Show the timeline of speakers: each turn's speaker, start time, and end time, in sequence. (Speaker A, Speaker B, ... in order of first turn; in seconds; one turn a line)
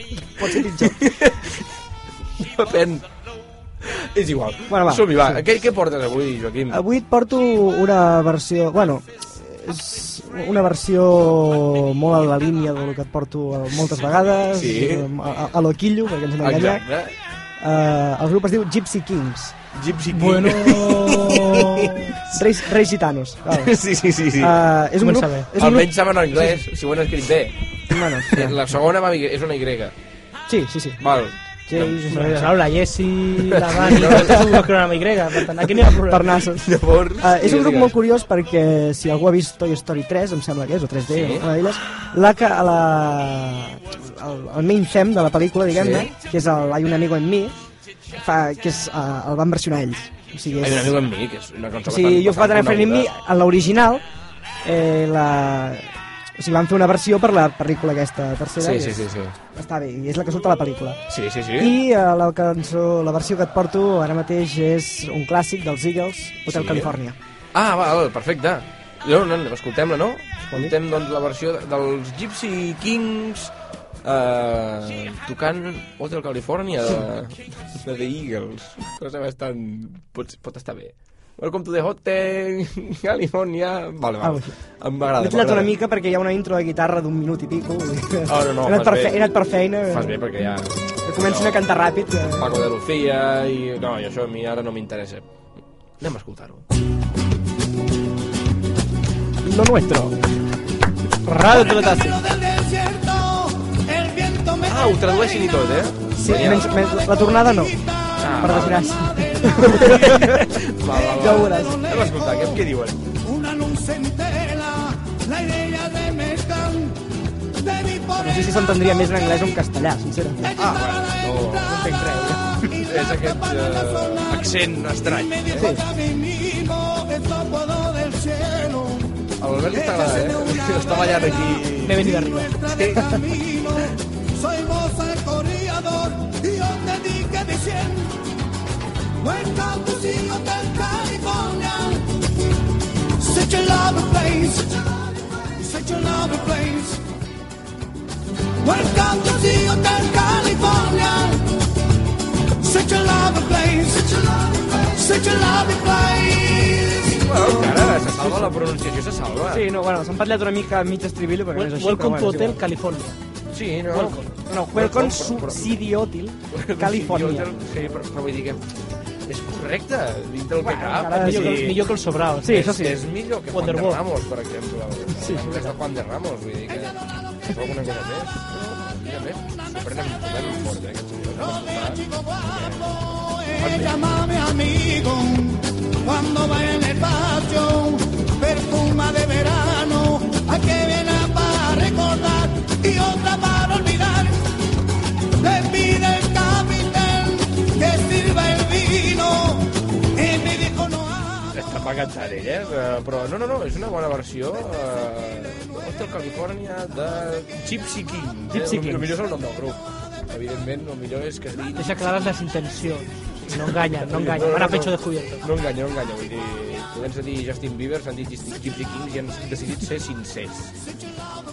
Speaker A: 0.3-1.0
Speaker B: 0.8-1.6
Speaker B: 2.4-3.1
Speaker B: 3.8-6.8
Speaker A: 4.7-5.4
Speaker A: 6.7-16.8
Speaker B: 14.4-15.1
Speaker B: 16.4-17.2
Speaker A: 17.6-19.6
Speaker B: 19.7-22.4
Speaker C: 20.1-22.1
Speaker A: 22.3-23.8
Speaker B: 23.5-24.7
Speaker A: 24.4-26.6
Speaker C: 25.0-25.5
Speaker B: 25.5-27.6
Speaker A: 27.9-28.6
Speaker B: 28.1-29.9
Speaker A: 30.5-31.0
Speaker B: 31.0-32.1
Speaker A: 31.7-32.5
Speaker C: 32.1-36.4
Speaker B: 33.3-34.6
Speaker A: 34.0-34.5
Speaker A: 36.0-47.5
Speaker B: 36.5-38.0
Speaker B: 41.1-41.5
Speaker B: 45.7-46.1
Speaker A: 48.1-51.0
Speaker B: 50.6-53.1
Speaker A: 51.9-54.0
Speaker A: 54.6-61.0
Speaker B: 58.6-59.4
Speaker B: 61.1-61.8
Speaker A: 61.6-67.2
Speaker B: 66.5-67.0
Speaker B: 67.5-85.8
Speaker A: 84.2-84.6
Speaker A: 85.2-90.2
Speaker B: 88.3-89.3
Speaker B: 89.9-91.7
Speaker A: 91.0-92.6
Speaker B: 92.3-95.3
Speaker B: 96.0-96.7
Speaker A: 99.4-100.2
Speaker A: 101.2-102.2
Speaker C: 101.3-102.1
Speaker B: 101.5-101.9
Speaker D: 102.2-104.6
Speaker B: 104.6-106.9
Speaker A: 106.1-107.8
Speaker B: 108.2-108.9
Speaker A: 108.4-111.8
Speaker B: 109.5-113.0
Speaker D: 113.3-117.0
Speaker D: 117.7-118.0
Speaker A: 118.1-120.5
Speaker B: 120.5-121.9
Speaker A: 121.7-122.4
Speaker C: 121.8-122.2
Speaker B: 122.7-125.9
Speaker A: 125.5-126.0
Speaker D: 126.2-129.1
Speaker B: 129.4-133.9
Speaker C: 131.8-132.7
Speaker D: 134.4-138.2
Speaker D: 139.2-142.2
Speaker D: 143.1-144.9
Speaker D: 145.5-147.0
Speaker D: 148.6-151.6
Speaker D: 152.6-157.0
Speaker B: 157.1-159.7
Speaker A: 157.4-158.6
Speaker A: 159.5-162.6
Speaker C: 161.5-163.2
Speaker B: 163.5-165.8
Speaker A: 163.9-167.5
Speaker B: 166.5-168.7
Speaker B: 169.3-171.8
Speaker A: 170.6-171.8
Speaker C: 171.1-172.7
Speaker A: 172.4-173.0
Speaker B: 172.4-184.3
Speaker C: 173.5-174.0
Speaker A: 175.1-175.7
Speaker D: 184.3-194.4
Speaker D: 195.4-201.3
Speaker B: 201.5-212.1
Speaker A: 208.5-209.2
Speaker C: 211.8-215.4
Speaker B: 213.5-220.8